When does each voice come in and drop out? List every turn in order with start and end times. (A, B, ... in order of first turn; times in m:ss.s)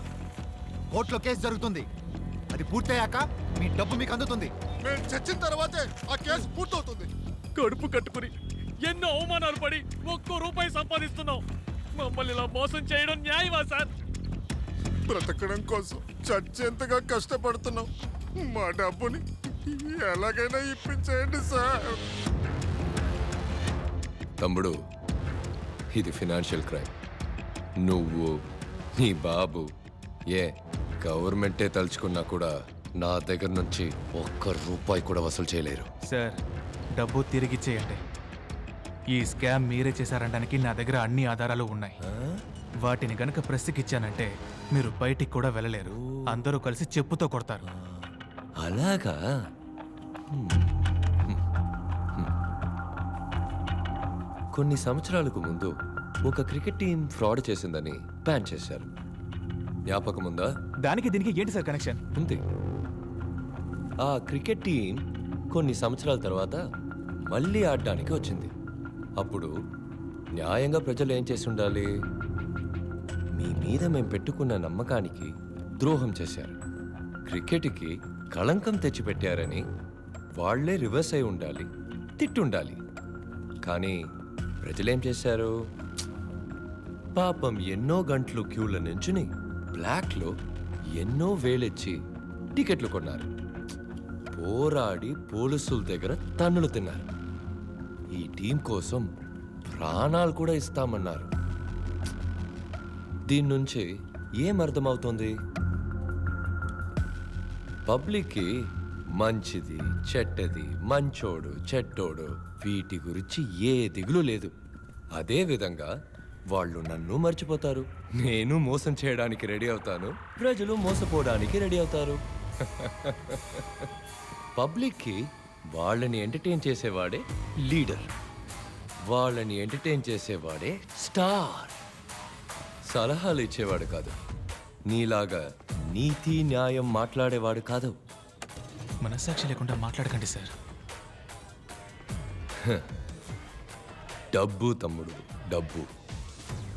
0:01.0-0:01.8 A
0:02.6-0:04.5 A
0:04.9-0:07.1 B
0:07.6-0:08.3 C
0:08.8-0:11.4 C
0:12.0-0:13.9 C
0:15.1-0:17.9 B
0:18.5-0:19.2 B
0:19.7-0:22.0 B
0:24.4-0:24.7 D
0:26.0-0:26.9 D
0:27.8-0:28.3 D
0:29.0-0:29.6 D
0:31.0-0:32.5 D
0:33.0-0:35.9 D
0:36.1-0:36.4 E
0:37.0-0:38.0 E
0:39.2-0:42.0 E
0:42.1-0:42.4 D
0:42.9-0:47.6 E
0:47.8-0:48.1 D
0:48.6-0:49.2 D
0:50.3-0:50.7 D
0:54.6-0:55.7 D
0:56.3-0:58.9 D
0:59.9-1:00.5 D
1:00.9-1:02.0 E
1:02.2-1:02.4 D
1:04.0-1:05.0 D
1:05.5-1:06.6 D
1:07.3-1:08.5 D
1:09.2-1:09.5 D
1:10.4-1:11.9 D
1:13.4-1:15.3 D
1:15.8-1:16.6 D
1:17.3-1:19.6 D
1:20.4-1:21.7 D
1:22.2-1:22.8 D
1:23.6-1:24.0 D
1:24.6-1:25.5 D
1:27.2-1:30.3 D
1:31.0-1:32.0 D
1:32.6-1:33.3 D
1:34.3-1:37.1 D
1:38.2-1:39.1 D
1:39.7-1:41.3 D
1:43.3-1:43.9 D
1:44.4-1:45.3 D
1:47.9-1:48.5 D
1:49.2-1:54.5 D
1:55.2-1:55.9 D
1:56.5-2:03.9 D
2:04.6-2:05.2 D
2:05.8-2:08.1 D
2:09.1-2:11.7 D
2:12.9-2:14.2 D
2:14.9-2:15.4 D
2:15.9-2:18.0 D
2:19.0-2:20.5 E
2:24.4-2:25.9 D